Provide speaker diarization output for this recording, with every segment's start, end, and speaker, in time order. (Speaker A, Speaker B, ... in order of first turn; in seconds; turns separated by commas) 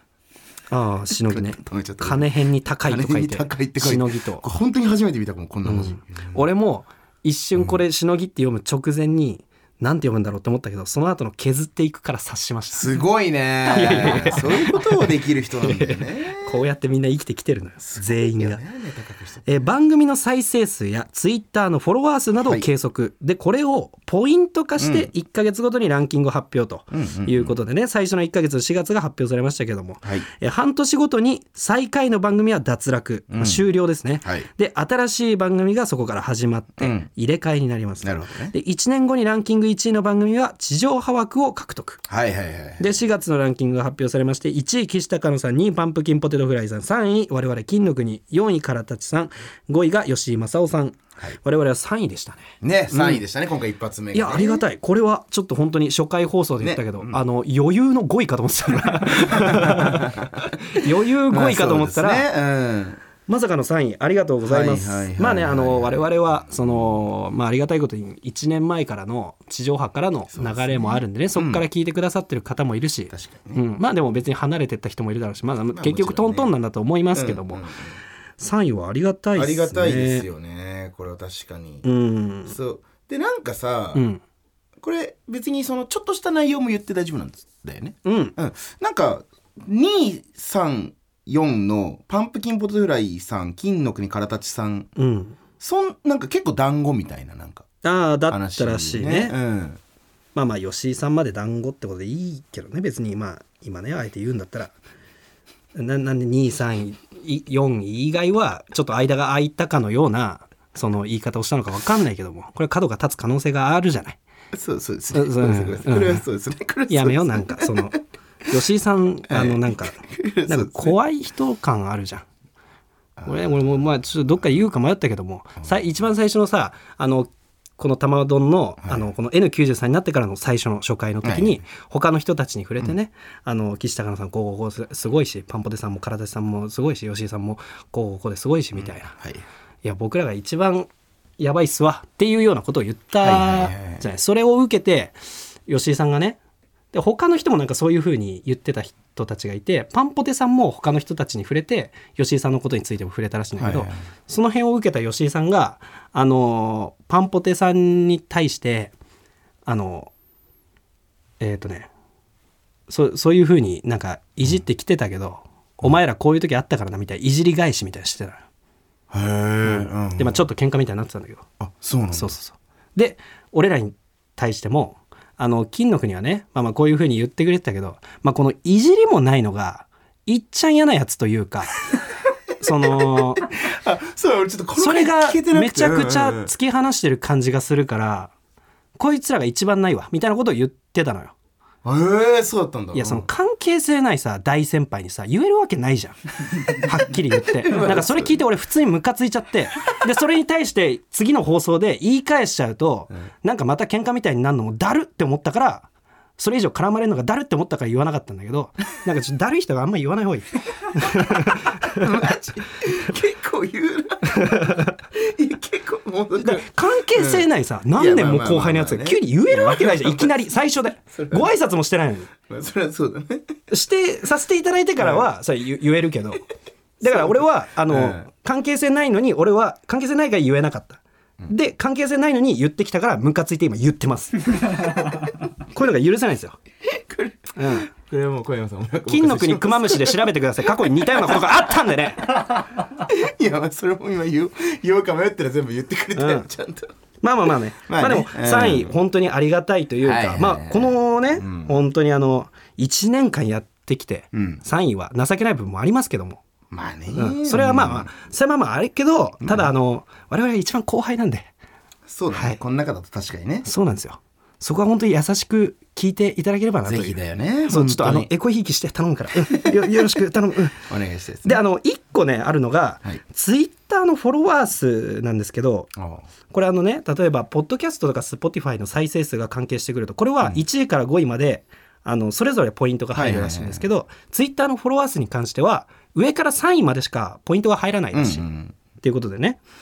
Speaker A: 0.7-4.4, Speaker B: 1.1-2.3, Speaker B: 2.8-6.4, Speaker A: 5.6-13.0, Speaker B: 12.7-16.6, Speaker A: 13.7-15.1, Speaker A: 15.6-18.6, Speaker B: 17.8-19.6, Speaker A: 19.4-42.0, Speaker B: 24.8-25.1, Speaker B: 26.9-27.6, Speaker B: 33.3-33.6, Speaker B: 36.8-37.1, Speaker B: 38.0-38.5, Speaker B: 42.1-43.0, Speaker A: 42.8-53.2, Speaker B: 52.6-54.6, Speaker A: 54.1-62.3, Speaker B: 56.6-57.2, Speaker B: 59.2-63.0, Speaker A: 63.3-77.6, Speaker B: 64.4-66.1, Speaker B: 70.3-71.6, Speaker B: 73.1-73.6, Speaker B: 75.7-76.5, Speaker B: 77.1-78.0, Speaker A: 78.4-80.2, Speaker B: 79.3-81.8, Speaker A: 81.8-82.5, Speaker B: 82.5-84.0, Speaker A: 83.9-84.2, Speaker B: 84.8-94.9, Speaker A: 88.0-88.3, Speaker A: 95.0-95.4, Speaker B: 95.6-97.7, Speaker A: 97.8-99.3, Speaker B: 98.3-99.8, Speaker A: 100.3-104.7, Speaker A: 105.7-114.2, Speaker B: 114.5-118.0, Speaker A: 115.1-116.2, Speaker A: 116.9-122.2, Speaker B: 119.3-121.0, Speaker B: 123.2-124.4, Speaker A: 123.2-139.2, Speaker B: 131.2-131.6, Speaker B: 138.7-139.4, Speaker A: 139.8-145.2, Speaker B: 143.2-144.1, Speaker A: 145.7-146.4, Speaker A: 146.9-158.9, Speaker B: 153.6-154.0, Speaker A: 159.7-160.1, Speaker A: 161.4-161.9, Speaker A: 162.9-168.4, Speaker B: 169.1-170.4, Speaker A: 169.6-171.5, Speaker B: 171.6-172.3, Speaker A: 172.1-181.9, Speaker B: 181.9-186.5, Speaker A: 182.6-183.4, Speaker A: 184.8-188.3, Speaker A: 189.0-191.3, Speaker B: 191.8-193.2, Speaker A: 192.9-205.9, Speaker B: 197.6-198.4, Speaker A: 206.4-212.1, Speaker B: 211.8-220.4, Speaker A: 214.3-214.9, Speaker A: 216.4-222.3, Speaker B: 221.1-221.5, Speaker B: 222.4-223.5, Speaker A: 223.7-226.4, Speaker B: 225.0-225.3, Speaker B: 227.0-228.3, Speaker A: 227.0-235.0, Speaker B: 234.7-235.2, Speaker A: 235.7-236.6, Speaker B: 236.8-246.9, Speaker A: 237.6-237.9, Speaker A: 239.1-242.3, Speaker A: 246.2-246.5, Speaker A: 247.2-256.4, Speaker B: 247.9-249.0, Speaker B: 250.0-251.8, Speaker B: 254.3-254.6, Speaker B: 256.7-258.1, Speaker A: 257.1-261.5, Speaker B: 259.4-259.7, Speaker B: 262.1-263.7, Speaker A: 262.3-262.6, Speaker A: 263.6-270.9, Speaker B: 266.8-268.3, Speaker B: 269.4-270.0, Speaker B: 270.8-271.6, Speaker A: 271.4-275.9, Speaker B: 275.9-276.2, Speaker A: 276.5-288.4, Speaker B: 283.1-283.9, Speaker B: 288.1-288.8, Speaker A: 289.0-289.6